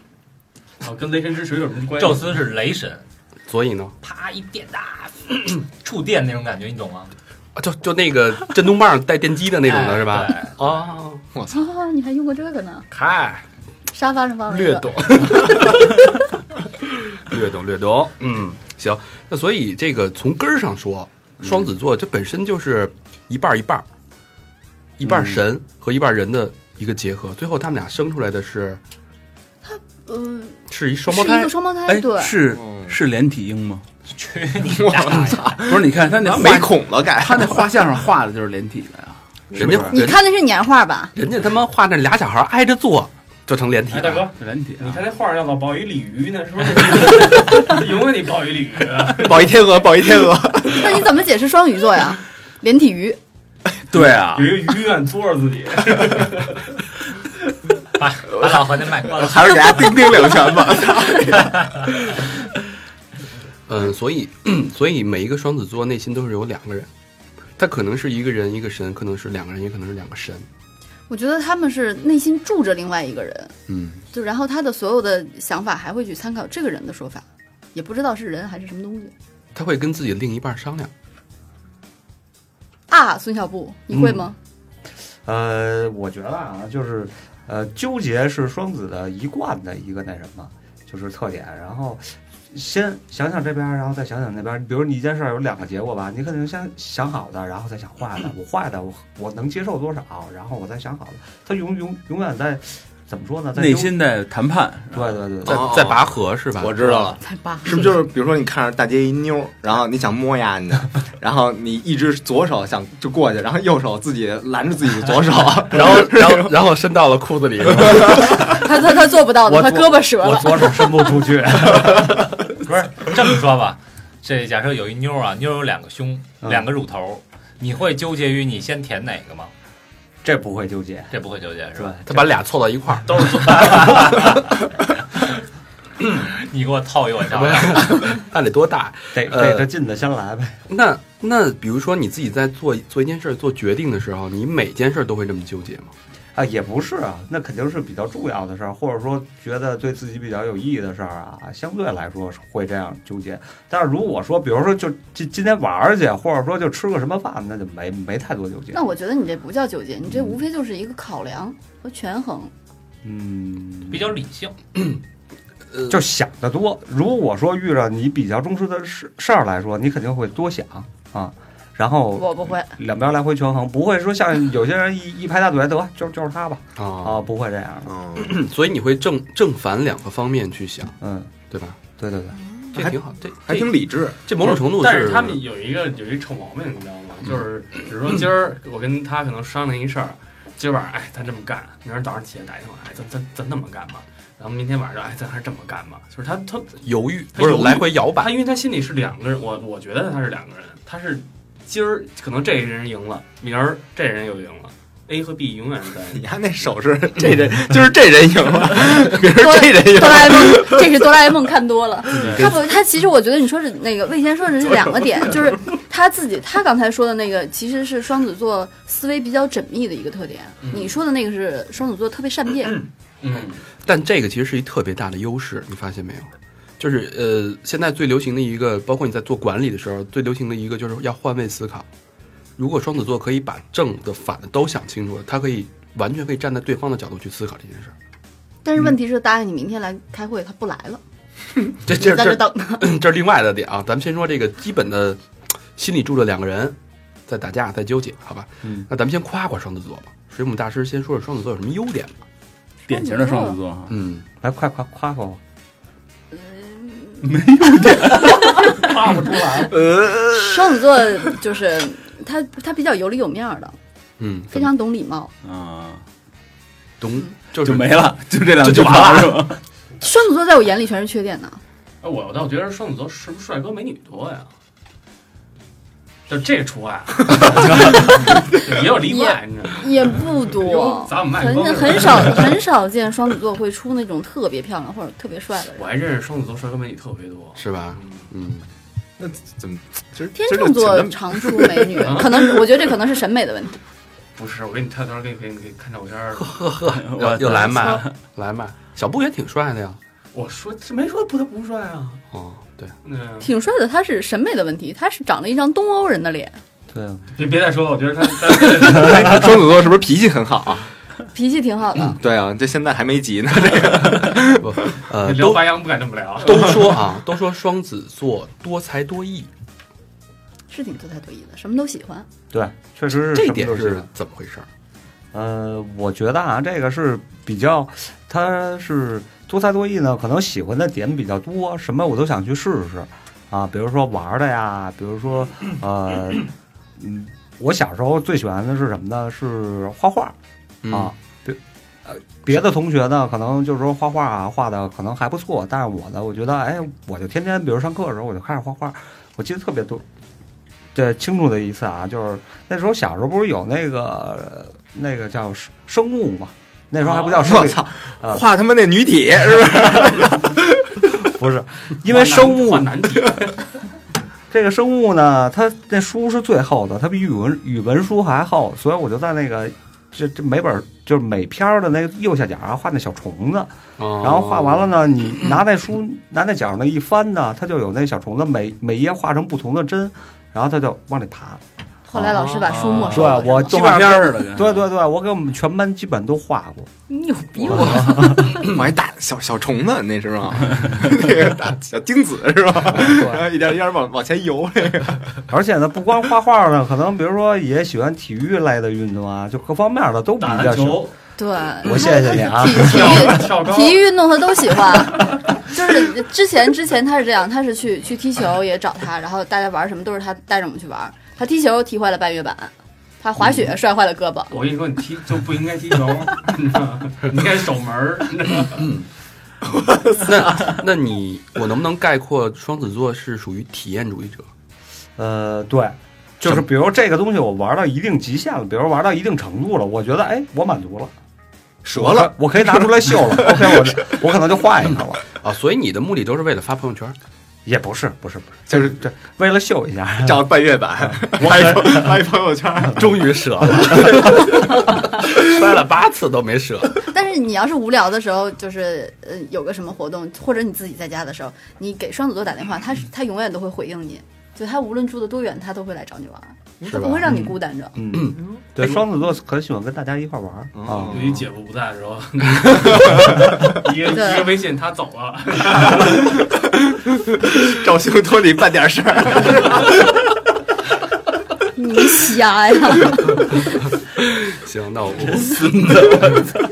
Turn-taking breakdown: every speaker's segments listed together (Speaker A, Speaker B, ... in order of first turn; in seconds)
Speaker A: 0.8-2.5, 43.9-49.5, 54.3-56.8, 133.1-134.2, 184.4-206.2, 212.2-212.5, 220.6-220.9, 223.2-223.6, 258.5-259.8, 272.0-274.5, 276.3-282.5, 285.7-288.3, 292.0-292.4, 294.4-296.7, 300.3-302.2, 303.0-303.5, 307.4-309.6, 315.1-316.9, 362.0-363.6, 400.4-401.1, 402.7-404.1, 414.5-418.9, 461.1-466.4
Speaker B: 1.9-3.0, 4.0-7.1, 9.6-10.8, 34.1-35.6, 58.0-60.3, 61.5-61.8, 122.6-129.5, 131.1-132.0, 133.3-134.6, 136.2-138.2, 163.9-164.6
Speaker C: 3.5-3.9, 7.5-11.2, 12.9-13.4, 14.5-15.9, 17.1-23.8, 25.0-28.8, 30.7-31.5, 39.5-40.2, 41.1-44.3, 63.7-66.9, 67.6-70.5, 73.7-74.0, 79.5-80.9, 105.4-107.1, 115.7-118.5, 132.1-133.3, 137.3-139.7, 140.7-145.9, 165.7-166.0, 176.8-177.2, 178.2-181.0, 181.5-181.8, 182.7-185.4, 196.8-198.4, 212.2-212.6, 223.8-231.8, 232.6-237.9, 241.8-245.2, 245.7-246.8, 247.3-252.1, 253.9-254.2, 264.2-264.6, 267.0-269.4, 287.6-288.7, 296.4-300.0, 302.3-302.9, 314.6-315.8, 316.4-319.5, 323.2-324.7, 340.8-341.1, 374.0-374.9, 418.6-419.1, 420.2-424.4, 435.2-437.1, 443.0-447.0, 456.8-457.4, 458.1-458.4, 474.1-476.4
Speaker D: 11.3-11.7, 32.5-33.0, 34.6-37.8, 39.5-39.9, 49.2-51.1, 58.4-61.8, 105.5-106.0, 106.6-116.5, 177.9-178.4, 182.7-184.2, 206.1-211.0, 289.2-292.8, 308.5-310.9, 312.2-315.0, 357.0-361.0, 387.7-395.3, 431.8-433.9, 438.7-439.0, 440.2-443.2, 443.9-444.3, 460.7-461.4, 466.6-470.1
Speaker E: 11.5-12.9, 13.9-14.9, 29.6-32.4, 39.9-41.1, 50.7-53.2, 71.1-73.5, 74.1-79.1, 82.9-84.3, 107.2-107.9, 118.4-121.0, 158.7-162.5, 172.2-172.8, 209.3-222.8, 238.6-241.0, 241.9-242.9, 252.9-253.6, 256.3-258.7, 260.3-263.8, 264.5-265.3, 270.0-271.6, 278.1-285.9, 290.3-293.8, 303.4-306.6, 311.3-312.2, 320.7-322.3, 382.1-383.8, 387.1-388.6, 401.4-414.6, 447.0-458.0, 464.1-464.6, 471.7-473.6
Speaker F: 31.9-33.8, 35.6-40.0, 44.3-45.0, 53.9-54.6, 103.5-105.1, 252.9-253.9, 257.2-258.4, 259.7-260.3, 265.4-266.0, 267.6-269.6, 296.9-298.1, 382.6-384.9, 475.7-476.4
Speaker G: 83.9-84.3, 85.2-104.0, 104.9-105.8, 119.4-122.3, 130.2-131.1, 131.7-132.3, 139.1-140.6, 146.3-158.8, 163.0-164.1, 165.9-177.9, 181.0-181.3, 182.0-182.3, 254.4-255.4, 306.9-307.3, 322.5-324.1, 325.3-340.4, 340.9-350.0, 350.9-358.4, 361.2-363.1, 364.5-381.6, 383.1-386.9, 387.5-388.6, 392.9-393.5, 395.5-401.1, 401.8-403.4, 425.2-431.1, 431.9-435.2, 437.6-442.0, 457.9-461.4